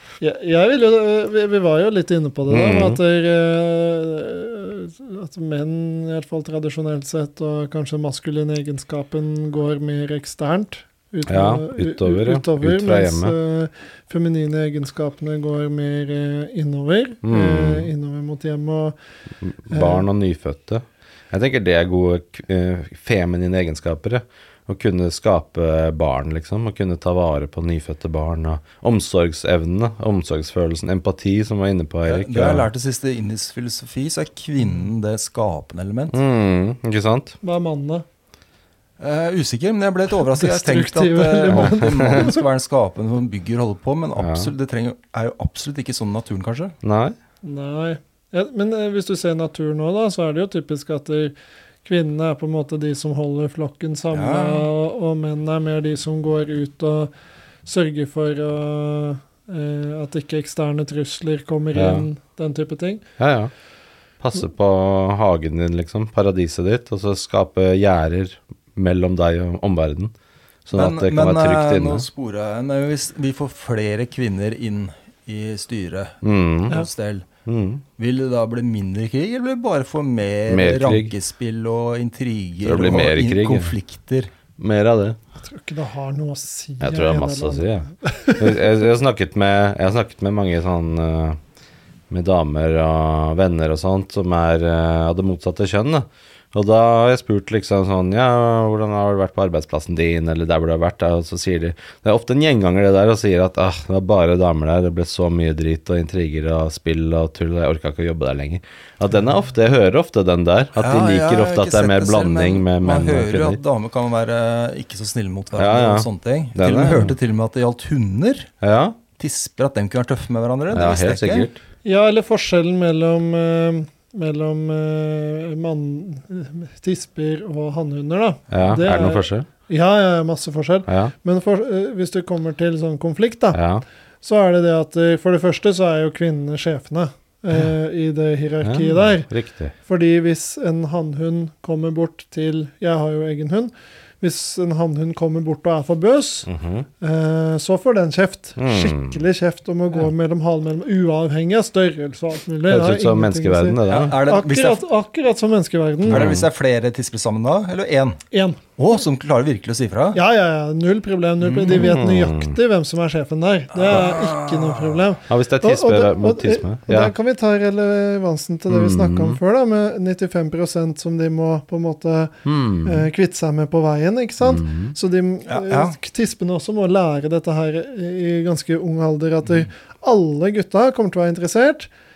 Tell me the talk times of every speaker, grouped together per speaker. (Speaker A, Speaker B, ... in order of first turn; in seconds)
Speaker A: 0.2-19.0, 19.7-20.1, 37.4-38.0, 40.2-42.4, 47.4-57.1, 57.6-63.0, 85.4-88.6, 121.8-133.6, 134.2-139.3, 139.9-146.5, 147.0-156.4, 158.3-158.6, 160.1-181.9
Speaker B: 2.5-3.0, 11.3-13.3, 17.2-17.9, 19.4-32.7, 36.1-37.4, 41.5-42.3, 44.2-44.5, 46.8-47.2, 61.7-62.1, 63.2-63.5, 64.2-70.1, 70.7-72.1, 76.2-76.8, 77.5-77.8, 80.5-81.1, 82.6-83.7, 84.6-85.2, 86.8-87.9, 88.4-91.4, 92.1-113.6, 115.6-117.2, 118.6-119.0, 120.7-121.6, 128.5-129.5, 130.9-131.1, 133.5-133.8, 138.6-139.7, 146.5-146.9, 148.6-149.2, 152.7-154.2, 156.1-156.5, 161.6-162.6, 165.3-167.1, 168.7-169.4, 172.5-173.1, 174.4-174.9
Speaker C: 32.0-36.2, 39.0-46.8, 54.1-54.7, 70.7-77.3, 78.0-84.3, 110.8-118.5, 119.2-121.5, 153.9-154.8, 156.1-158.2, 158.8-160.2, 161.4-161.7, 163.7-165.1, 175.5-176.0